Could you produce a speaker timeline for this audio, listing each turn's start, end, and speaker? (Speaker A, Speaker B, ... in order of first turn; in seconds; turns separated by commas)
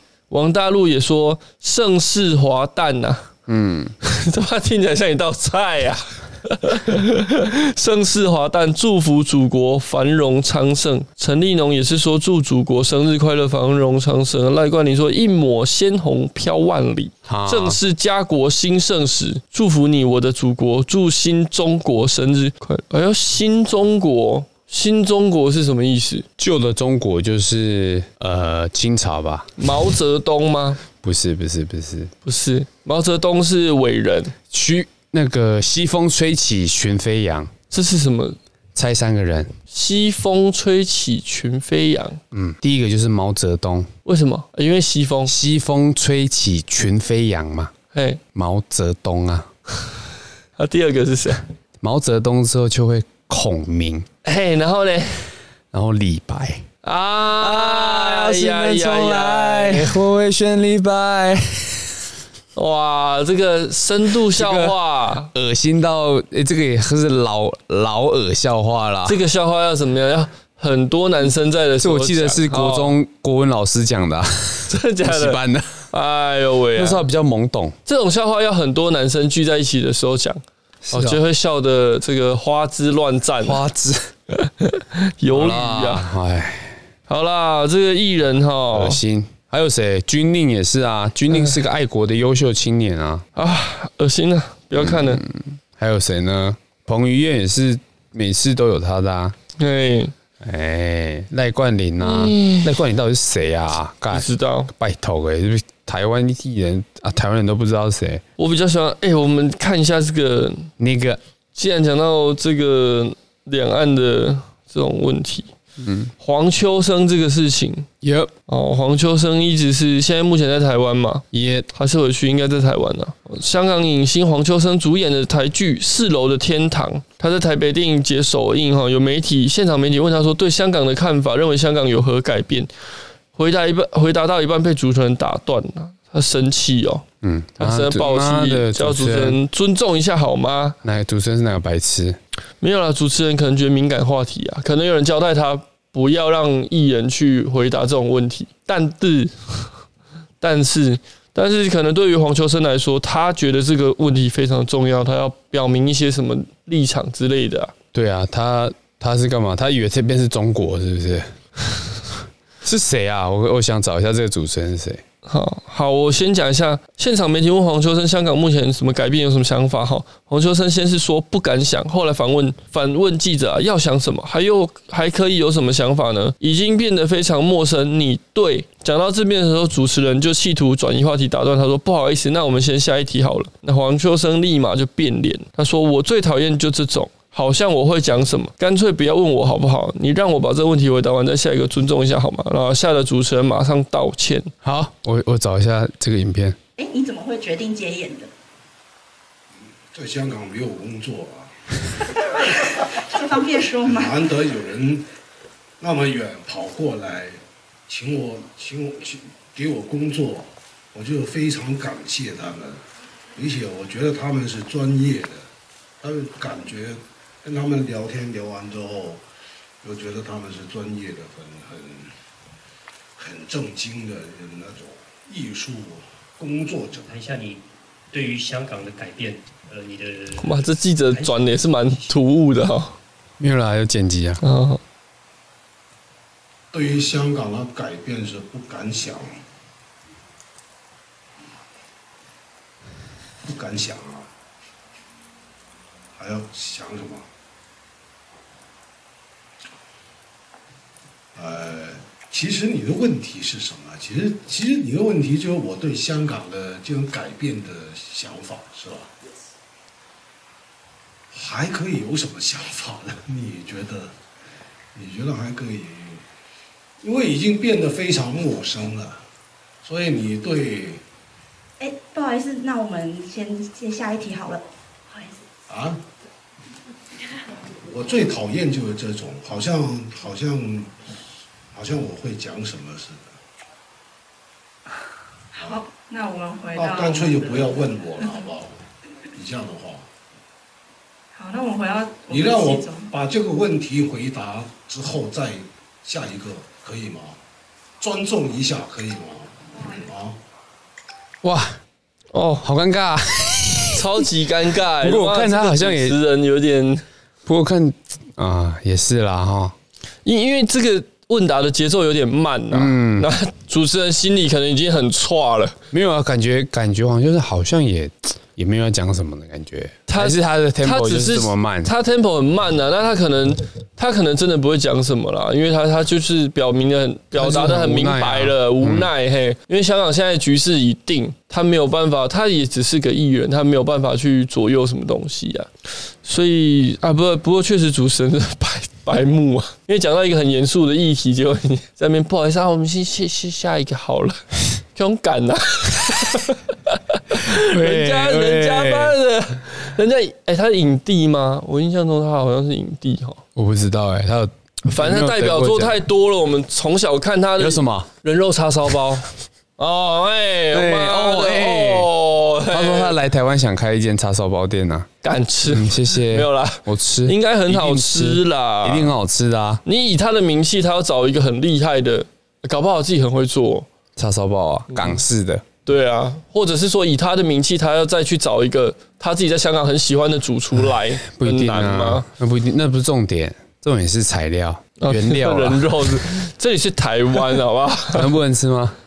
Speaker A: 0.3-3.3, Speaker B: 3.5-3.9, Speaker A: 4.0-26.2, Speaker B: 17.2-17.8, Speaker B: 26.4-29.5, Speaker A: 29.6-30.8, Speaker B: 31.0-32.1, Speaker A: 32.2-34.3, Speaker B: 34.5-37.5, Speaker A: 37.7-38.4, Speaker B: 38.7-39.5, Speaker A: 39.7-42.2, Speaker B: 42.3-43.9, Speaker A: 44.0-45.3, Speaker B: 45.3-47.7, Speaker A: 47.9-48.2, Speaker B: 48.3-49.5, Speaker A: 50.6-51.4, Speaker B: 51.8-54.1, Speaker A: 54.2-55.3, Speaker B: 55.7-56.6, Speaker A: 56.8-60.0, Speaker B: 57.4-62.0, Speaker A: 62.5-65.3, Speaker B: 64.3-64.8, Speaker B: 65.3-69.2, Speaker A: 69.0-73.0, Speaker B: 71.8-75.9, Speaker A: 74.7-77.0, Speaker B: 76.7-77.8, Speaker A: 77.8-80.4, Speaker B: 80.8-81.2, Speaker A: 80.9-83.6, Speaker B: 83.4-84.1, Speaker A: 84.3-86.1, Speaker B: 85.3-86.8, Speaker A: 87.1-89.0, Speaker B: 88.7-93.2, Speaker A: 93.3-95.2, Speaker B: 94.8-99.3, Speaker A: 99.6-100.1, Speaker B: 100.4-108.2, Speaker A: 102.0-102.7, Speaker A: 104.1-104.7, Speaker A: 108.4-110.7, Speaker B: 110.8-111.2, Speaker A: 111.5-115.5, Speaker B: 115.8-116.1, Speaker A: 116.2-117.9, Speaker B: 118.0-118.3, Speaker A: 118.5-132.7, Speaker B: 121.3-121.7, Speaker A: 133.3-137.0, Speaker B: 137.2-139.4, Speaker A: 137.6-140.8, Speaker B: 140.8-142.2, Speaker A: 142.6-149.7, Speaker A: 150.4-157.7, Speaker B: 157.9-161.3, Speaker B: 162.6-165.0, Speaker A: 165.2-194.5, Speaker B: 194.6-196.6, Speaker C: 196.8-198.3, Speaker D: 199.9-201.6, Speaker C: 202.5-204.1, Speaker D: 203.9-205.1, Speaker D: 205.8-215.5, Speaker D: 216.0-219.2, Speaker D: 219.8-222.1, Speaker D: 223.2-227.1, Speaker E: 227.0-232.1, Speaker A: 230.4-232.9, Speaker B: 233.4-234.4, Speaker A: 234.4-234.8, Speaker D: 236.7-239.3, Speaker D: 243.4-244.3, Speaker D: 246.1-247.3, Speaker D: 251.3-259.1, Speaker D: 261.3-264.1, Speaker D: 264.9-266.2, Speaker D: 267.0-269.2, Speaker D: 269.8-271.0, Speaker C: 271.8-275.4, Speaker D: 275.7-276.0, Speaker D: 277.7-280.9, Speaker D: 281.7-283.3, Speaker C: 285.5-288.4, Speaker D: 286.8-288.8, Speaker D: 289.3-290.1, Speaker C: 291.3-293.1, Speaker D: 292.3-297.4, Speaker D: 298.0-300.4, Speaker B: 301.4-301.8, Speaker A: 302.3-302.7, Speaker B: 302.6-304.2, Speaker A: 303.9-307.0, Speaker B: 305.0-306.2, Speaker B: 307.4-309.7, Speaker A: 310.2-315.8, Speaker B: 312.7-313.3, Speaker B: 315.9-321.9, Speaker A: 320.1-335.7, Speaker B: 327.3-329.1, Speaker A: 336.2-353.4, Speaker B: 347.3-349.2, Speaker B: 353.6-356.0, Speaker A: 354.9-363.1, Speaker B: 357.6-358.1, Speaker B: 360.7-362.1, Speaker B: 362.7-365.1, Speaker A: 365.2-369.1, Speaker B: 365.6-369.8, Speaker A: 369.8-373.9, Speaker B: 374.1-375.6, Speaker A: 374.9-375.2, Speaker A: 375.9-382.3, Speaker B: 381.2-386.2, Speaker A: 385.0-388.3, Speaker B: 388.1-389.0